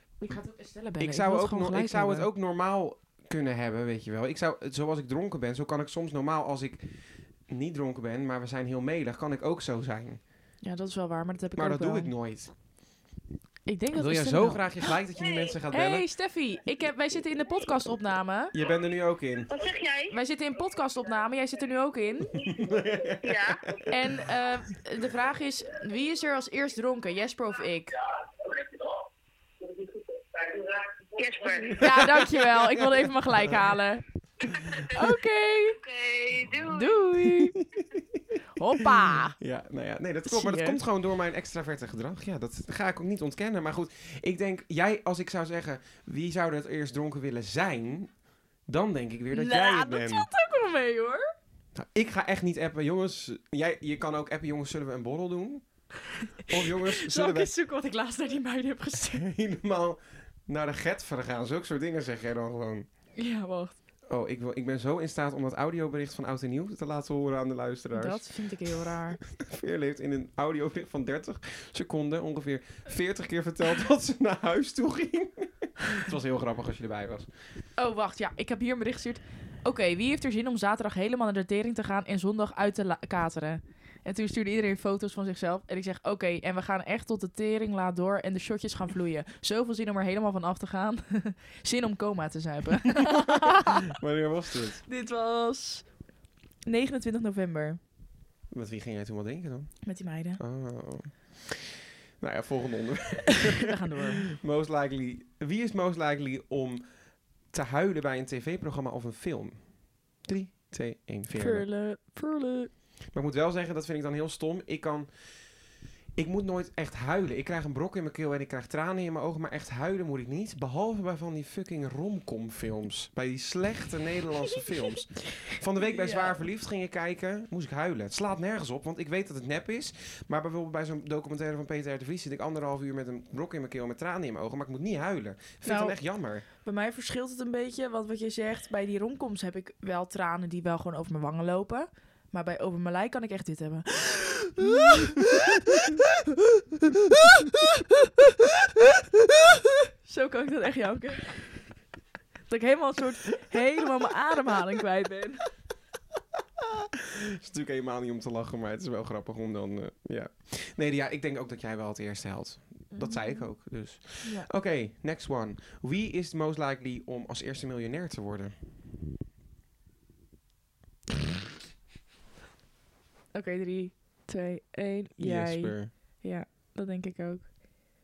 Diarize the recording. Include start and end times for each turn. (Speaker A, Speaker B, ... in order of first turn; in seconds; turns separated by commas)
Speaker A: 0.2-2.3, Speaker B: 1.0-6.8, Speaker B: 7.5-10.2, Speaker A: 10.6-12.1, Speaker B: 11.6-12.5, Speaker A: 13.7-14.9, Speaker B: 13.9-16.1, Speaker C: 15.2-15.6, Speaker A: 15.7-18.5, Speaker B: 18.5-19.5, Speaker C: 19.5-20.1, Speaker A: 20.1-22.4, Speaker B: 22.4-24.3, Speaker C: 23.2-23.6, Speaker A: 23.9-27.9, Speaker C: 28.4-28.9, Speaker C: 29.6-32.0, Speaker B: 31.7-33.8, Speaker A: 31.8-34.0, Speaker B: 34.4-34.8, Speaker A: 34.9-35.8, Speaker C: 35.7-37.0, Speaker A: 36.6-37.5, Speaker B: 37.3-38.9, Speaker A: 38.5-39.4, Speaker B: 39.4-48.1, Speaker A: 40.2-40.8, Speaker B: 48.6-50.3, Speaker A: 49.3-51.2, Speaker B: 51.7-55.6, Speaker A: 56.5-59.3, Speaker B: 56.5-57.5, Speaker B: 59.1-62.9, Speaker A: 63.1-63.8, Speaker B: 64.1-68.3, Speaker A: 67.9-69.2, Speaker B: 69.2-77.3, Speaker A: 77.8-93.9, Speaker B: 93.3-94.8, Speaker A: 94.8-95.9, Speaker A: 96.7-97.8, Speaker B: 98.5-103.7, Speaker A: 99.8-100.4, Speaker A: 103.5-104.2, Speaker B: 104.2-106.8, Speaker B: 107.5-111.7, Speaker A: 111.3-112.7, Speaker B: 113.1-115.5, Speaker B: 116.2-136.4, Speaker A: 125.8-126.4, Speaker A: 135.6-151.6, Speaker B: 144.6-144.9, Speaker A: 152.5-155.5, Speaker B: 156.6-168.5, Speaker A: 162.9-163.5, Speaker A: 164.2-164.5, Speaker A: 173.3-177.5, Speaker B: 175.2-175.9